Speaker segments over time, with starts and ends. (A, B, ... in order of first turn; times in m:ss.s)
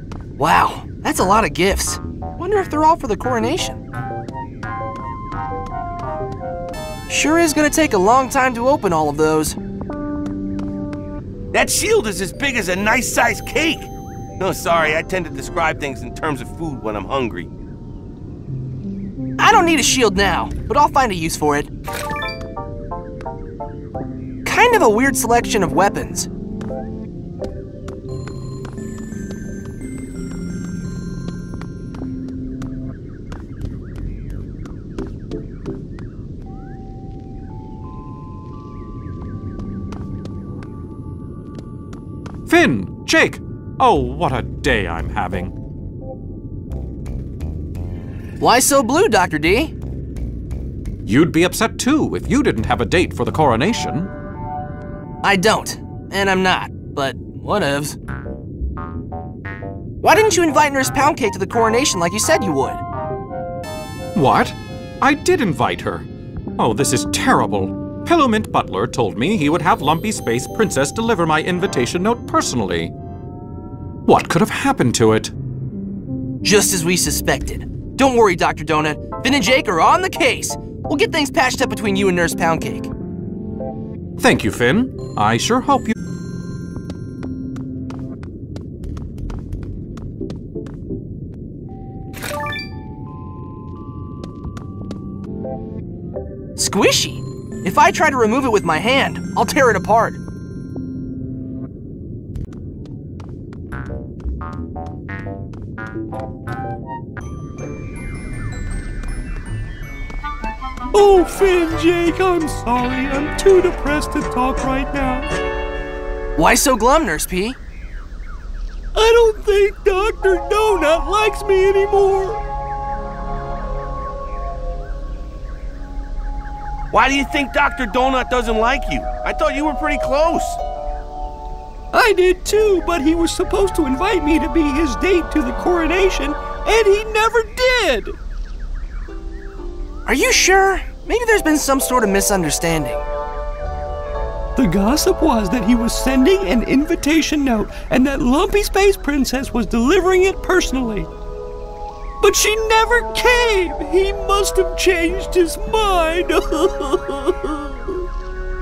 0:00.4-0:03.8 A
0:07.1-0:09.6 A
0:11.5-0:17.5 B
0:19.4-0:21.7 A
0:24.4-0:26.3 A
0:42.5-0:45.6 C
0:48.4-0:49.7 A
0:51.0-0:54.1 C
0:55.2-0:58.0 A
1:00.0-1:02.8 A
1:04.2-1:12.9 C
1:14.0-1:15.3 C
1:16.4-1:22.9 A
1:24.2-1:25.9 C
1:36.6-1:40.2 A
1:50.9-1:55.3 D
1:56.4-1:57.6 A
1:58.9-2:02.4 D
2:06.9-2:10.6 B
2:11.9-2:18.2 D
2:20.1-2:23.0 A
2:24.6-2:31.1 D
2:32.2-2:38.0 D